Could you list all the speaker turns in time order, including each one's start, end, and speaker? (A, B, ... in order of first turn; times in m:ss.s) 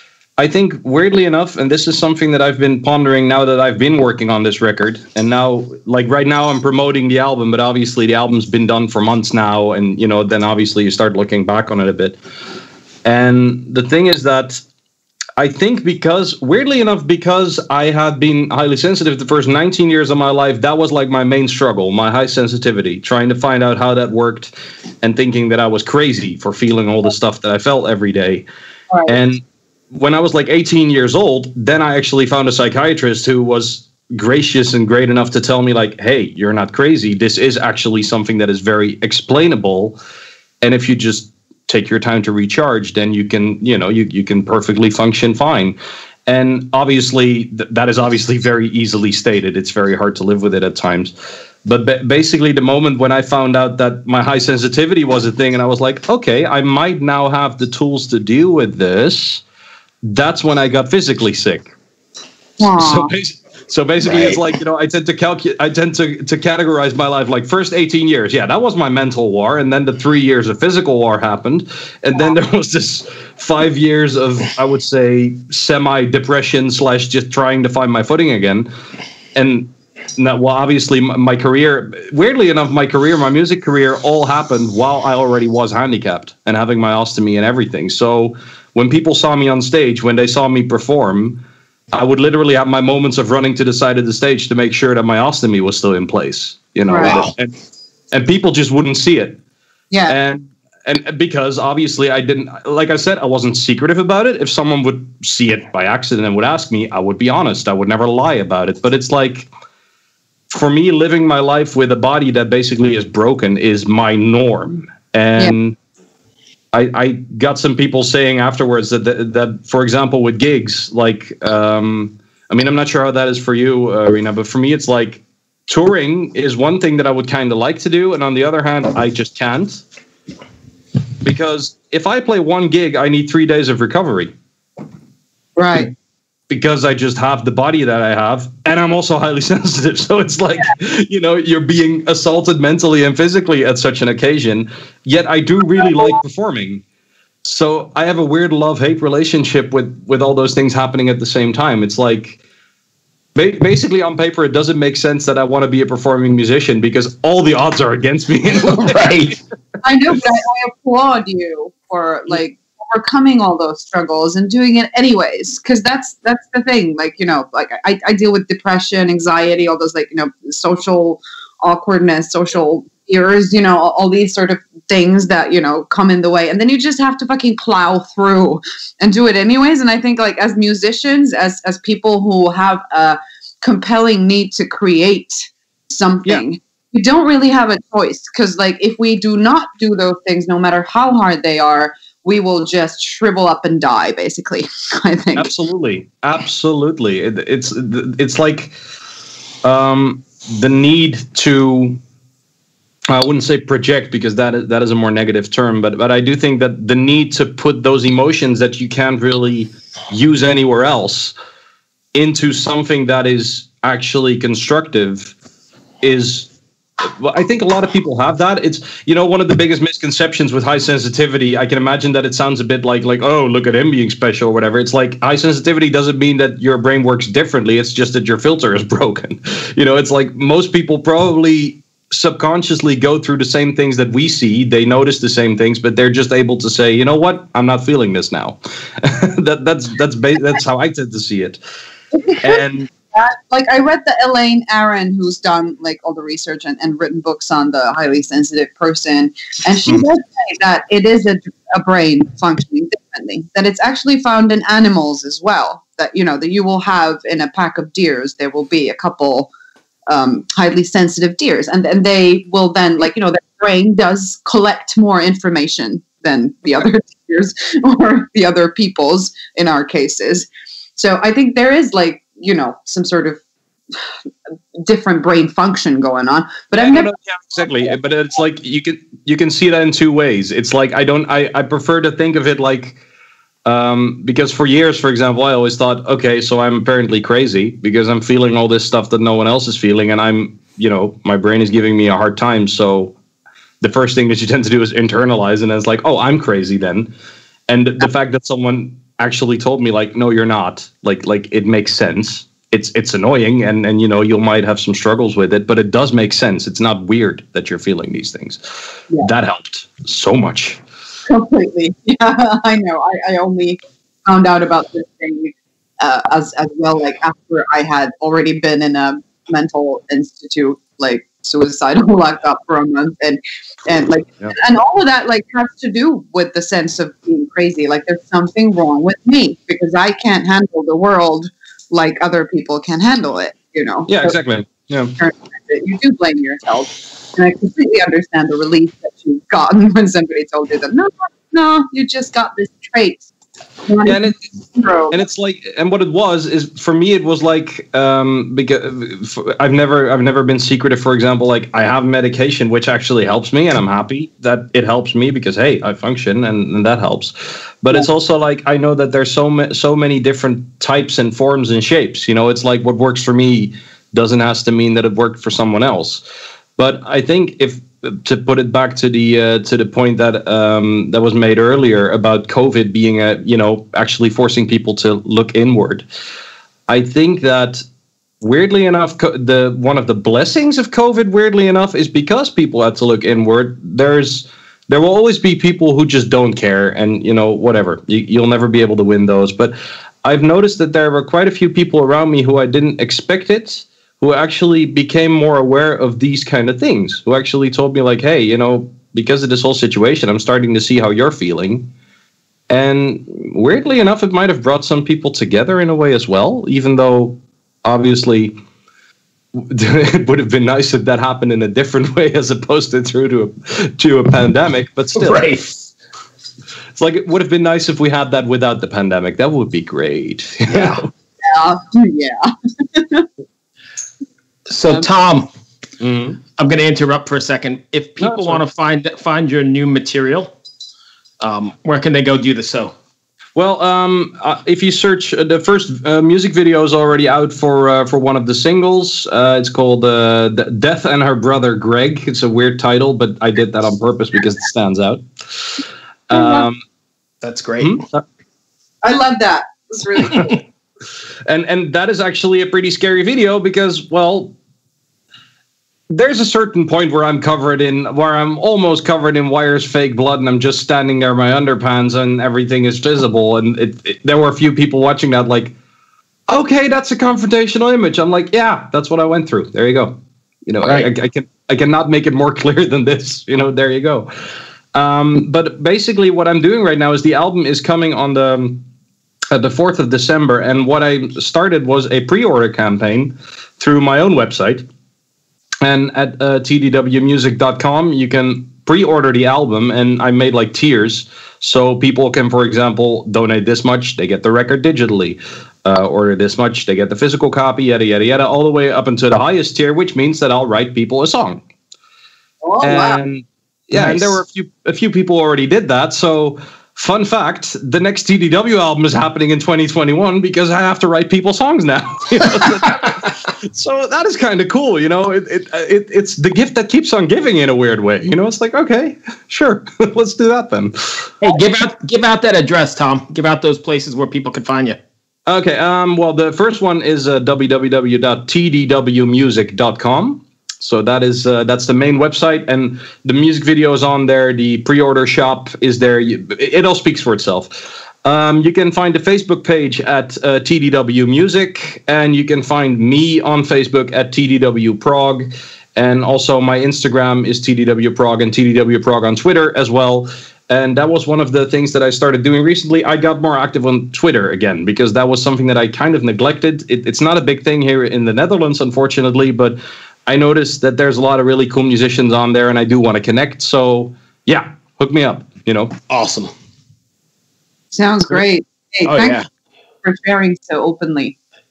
0:00.4-0:12.2 A
0:13.0-0:14.6 A
0:15.4-0:28.4 A
0:28.9-0:29.2 B
0:29.0-0:40.0 A
0:40.6-0:51.1 A
0:51.6-0:59.4 A
1:00.0-1:01.7 A
1:02.6-1:03.1 B
1:02.6-1:18.7 A
1:04.0-1:04.4 C
1:19.3-1:37.6 A
1:36.9-1:37.2 B
1:37.0-1:37.3 C
1:38.1-1:39.4 A
1:39.9-1:40.2 B
1:40.1-1:49.5 A
1:50.5-1:55.8 A
1:56.7-2:09.8 A
2:11.2-2:14.3 A
2:15.6-2:15.9 B
2:16.5-2:26.8 A
2:27.4-2:32.4 A
2:33.3-2:39.3 A
2:38.6-2:39.4 C
2:39.8-3:15.5 B
3:15.4-3:18.7 A
3:19.6-3:22.0 A
3:23.1-3:31.3 A
3:32.1-3:35.4 A
3:36.0-3:36.5 A
3:37.0-4:01.6 A
4:02.1-4:19.5 B
4:02.4-4:02.9 A
4:20.1-4:33.4 B
4:34.8-4:37.1 B
4:36.7-4:43.0 A
4:43.6-4:53.1 A
4:53.8-4:57.1 A
4:57.7-5:08.6 A
5:09.2-5:10.8 A
5:11.3-5:34.4 B
5:34.1-5:35.2 A
5:35.2-5:43.3 B
5:43.8-5:45.2 B
5:44.0-5:44.5 A
5:45.1-6:06.2 A
6:06.8-6:16.0 A
6:16.9-6:17.8 A
6:18.4-6:41.9 A
6:42.7-6:48.6 A
6:49.5-6:55.5 A
6:55.1-6:55.8 C
6:56.9-7:01.1 A
7:00.7-7:01.0 C
7:01.4-7:03.3 B
7:04.7-7:05.5 C
7:06.0-7:06.4 A
7:06.6-7:10.5 C
7:08.2-7:08.6 A
7:11.4-7:12.9 C
7:13.6-7:26.8 A
7:26.3-7:26.7 B
7:27.4-7:28.0 C
7:27.8-7:28.2 A
7:29.0-7:30.6 B
7:31.5-7:34.6 A
7:36.1-7:45.8 A
7:46.5-7:54.3 A
7:50.8-7:51.1 C
7:54.9-7:58.8 A
7:59.5-8:04.8 A
8:05.8-8:21.6 A
8:22.6-8:23.2 B
8:22.8-8:41.3 A
8:23.9-8:24.4 C
8:41.4-8:45.0 C
8:45.5-9:25.9 A
9:26.1-9:26.5 C
9:27.9-9:29.4 B
9:29.0-9:29.4 C
9:30.0-9:31.4 B